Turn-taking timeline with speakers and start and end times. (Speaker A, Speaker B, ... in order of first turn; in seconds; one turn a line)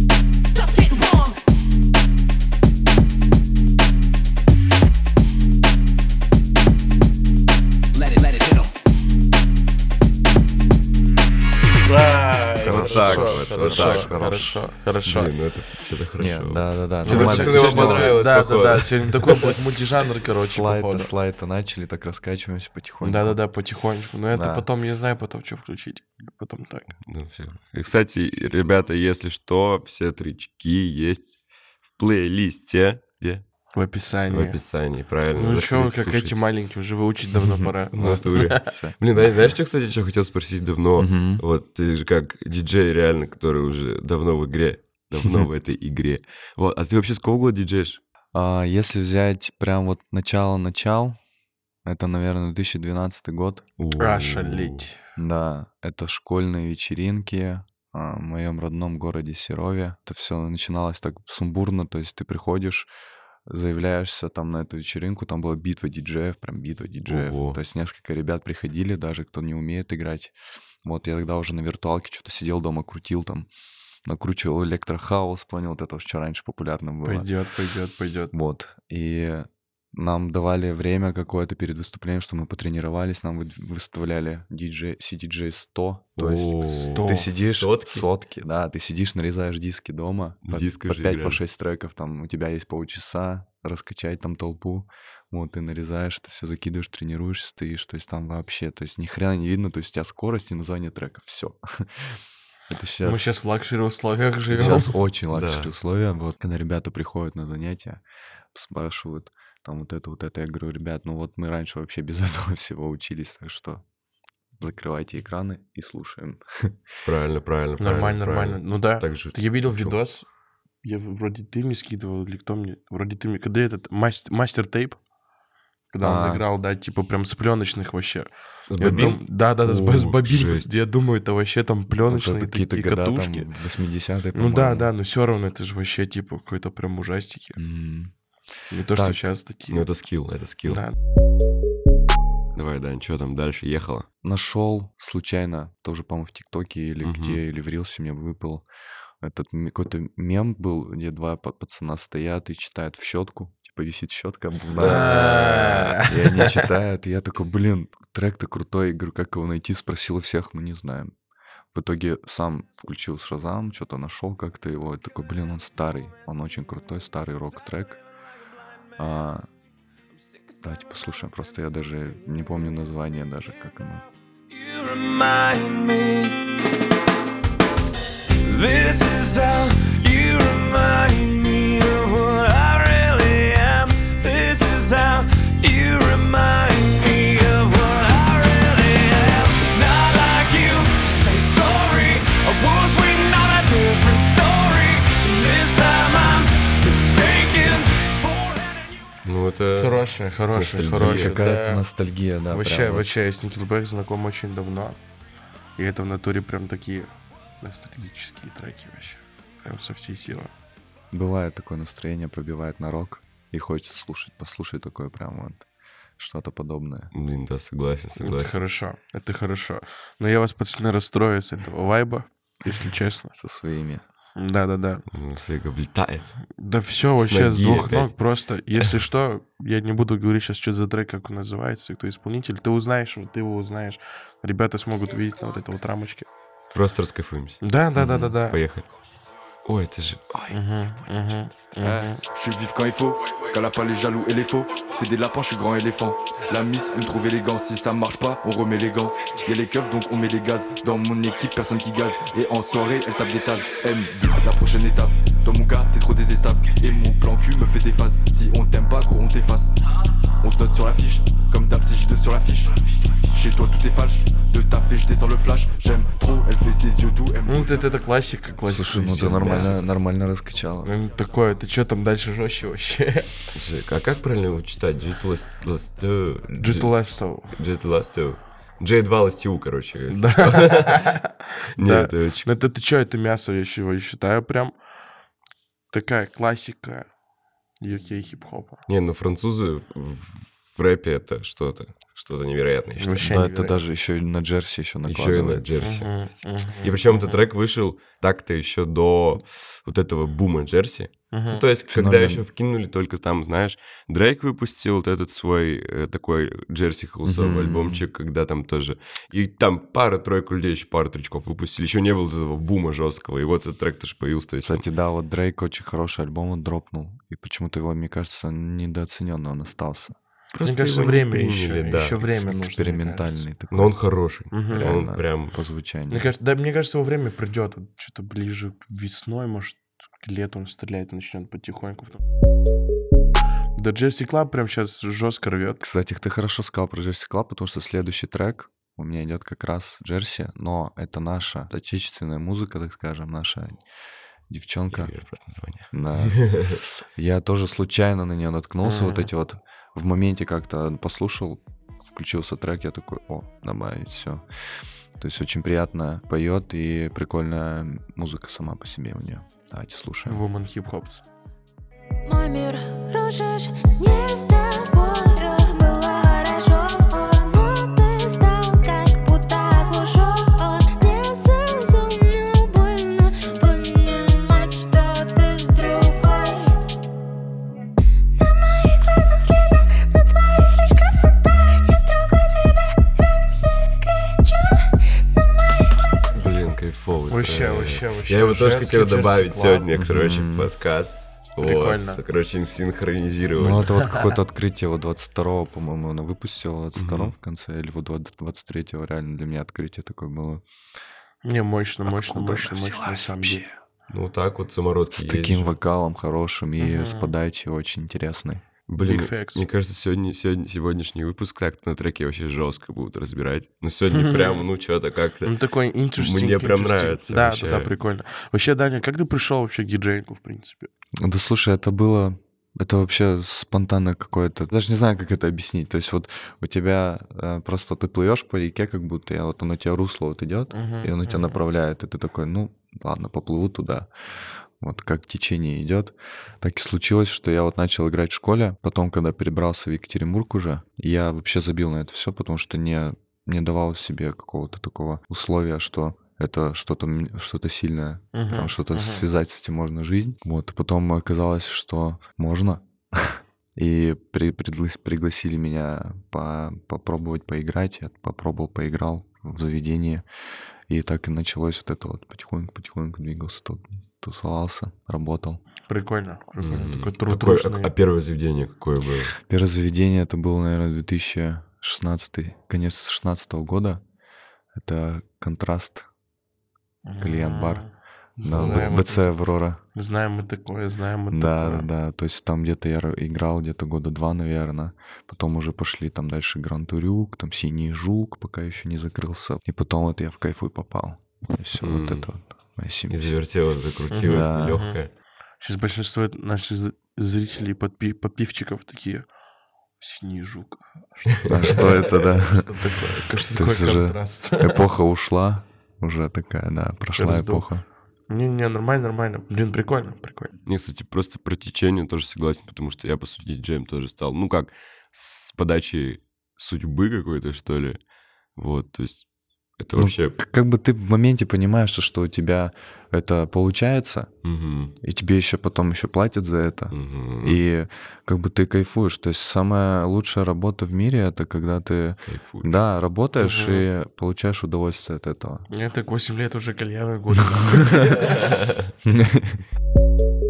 Speaker A: 11.8-15.3
Speaker B: 12.6-14.4
Speaker C: 12.6-14.6
Speaker B: 15.0-19.6
Speaker C: 16.2-18.2
Speaker A: 17.0-21.1
Speaker C: 20.3-23.4
Speaker A: 23.0-26.9
Speaker C: 24.3-24.7
Speaker B: 27.1-31.4
Speaker B: 32.0-33.4
Speaker A: 33.7-34.6
Speaker B: 34.3-36.4
Speaker A: 35.4-38.6
Speaker C: 37.9-39.0
Speaker B: 37.9-48.0
Speaker C: 41.0-41.4
Speaker C: 48.3-51.2
Speaker C: 51.8-53.6
Speaker B: 53.8-54.9
Speaker A: 54.0-55.0
Speaker C: 55.1-62.9
Speaker C: 63.5-73.5
Speaker B: 67.0-67.6
Speaker C: 74.0-77.3
Speaker A: 77.0-78.3
Speaker C: 78.3-103.2
Speaker B: 86.2-88.1
Speaker A: 86.9-87.5
Speaker B: 90.4-91.4
Speaker A: 103.0-104.9
Speaker C: 104.5-113.8
Speaker B: 105.3-105.7
Speaker C: 114.6-116.8
Speaker B: 117.0-120.0
Speaker A: 117.8-120.2
Speaker A: 120.8-125.0
Speaker A: 125.9-133.5
Speaker C: 126.0-126.4
Speaker B: 128.7-130.7
Speaker C: 128.9-129.1
Speaker C: 131.9-134.9
Speaker A: 134.3-137.6
Speaker C: 137.6-138.1
Speaker A: 138.7-139.9
Speaker C: 138.9-139.2
Speaker B: 139.7-140.8
Speaker A: 140.7-140.9
Speaker B: 142.5-144.1
Speaker C: 144.2-148.7
Speaker B: 147.0-147.4
Speaker C: 149.2-161.1
Speaker B: 154.7-155.8
Speaker A: 154.8-156.5
Speaker C: 161.7-168.0
Speaker C: 169.0-169.5
Speaker C: 170.6-174.0
Speaker D: 174.5-176.3
Speaker D: 178.4-198.9
Speaker B: 199.2-201.4
Speaker A: 199.8-201.8
Speaker C: 201.0-203.1
Speaker A: 202.5-205.0
Speaker A: 205.8-210.5
Speaker C: 211.1-215.6
Speaker C: 216.2-217.1
Speaker B: 217.1-218.6
Speaker A: 218.2-223.3
Speaker C: 223.3-224.0
Speaker A: 224.3-225.0
Speaker B: 225.1-226.4
Speaker A: 226.5-236.3
Speaker B: 227.2-228.1
Speaker B: 236.7-238.9
Speaker A: 237.6-238.6
Speaker B: 239.6-240.5
Speaker A: 240.5-242.2
Speaker E: 241.7-259.7
Speaker E: 260.4-267.9
Speaker A: 267.4-269.8
Speaker C: 268.6-270.9
Speaker B: 269.3-269.9
Speaker A: 270.8-273.3
Speaker B: 273.5-276.9
Speaker A: 276.6-277.5
Speaker B: 277.5-281.1
Speaker A: 280.1-284.8
Speaker B: 281.8-282.5
Speaker A: 285.9-287.1
Speaker A: 287.8-288.8
Speaker B: 288.9-293.3
Speaker A: 293.0-293.7
Speaker C: 293.2-295.7
Speaker B: 295.1-314.8
Speaker A: 295.8-297.4
Speaker A: 301.3-301.6
Speaker C: 301.9-302.4
Speaker C: 307.2-308.0
Speaker C: 314.6-320.1
Speaker B: 320.5-322.3
Speaker A: 320.6-323.4
Speaker C: 322.5-324.0
Speaker B: 323.7-325.6
Speaker A: 324.5-324.9
Speaker C: 324.7-326.3
Speaker A: 326.1-332.2
Speaker A: 333.8-335.8
Speaker C: 335.8-343.8
Speaker C: 344.5-345.1
Speaker B: 344.9-346.8
Speaker C: 345.9-354.4
Speaker A: 348.8-349.3
Speaker C: 355.2-360.4
Speaker A: 360.2-361.2
Speaker F: 362.2-376.7
Speaker F: 378.3-386.7
Speaker B: 386.3-393.9
Speaker A: 387.3-389.9
Speaker C: 389.9-390.7
Speaker A: 391.6-392.2
Speaker C: 393.6-400.6
Speaker B: 396.9-397.3
Speaker A: 401.4-403.6
Speaker C: 402.1-403.6
Speaker B: 404.1-405.8
Speaker C: 405.1-408.6
Speaker A: 406.8-407.3
Speaker B: 408.9-415.6
Speaker A: 409.0-409.7
Speaker A: 414.1-414.6
Speaker A: 415.4-420.9
Speaker B: 416.1-417.9
Speaker C: 421.2-460.2
Speaker A: 430.7-431.6
Speaker A: 448.3-449.2
Speaker C: 460.9-465.6
Speaker A: 465.9-467.9
Speaker B: 466.6-469.3
Speaker C: 469.4-474.0
Speaker C: 474.7-476.1
Speaker A: 477.0-479.3
Speaker C: 477.2-479.8
Speaker A: 479.9-481.9
Speaker C: 481.3-493.3
Speaker B: 491.8-492.3
Speaker B: 493.1-495.1
Speaker A: 494.1-495.0
Speaker C: 494.2-494.8
Speaker A: 495.6-499.2
Speaker A: 500.0-504.8
Speaker C: 501.5-502.7
Speaker C: 503.5-507.8
Speaker A: 507.2-507.7
Speaker A: 508.3-510.5
Speaker B: 510.6-518.0
Speaker B: 518.5-519.2
Speaker B: 519.8-520.4
Speaker C: 520.0-524.3
Speaker B: 524.4-524.9
Speaker C: 525.0-535.7
Speaker B: 526.9-527.6
Speaker B: 532.3-532.7
Speaker A: 533.4-533.8
Speaker A: 535.7-538.3
Speaker B: 538.2-538.8
Speaker C: 539.0-539.6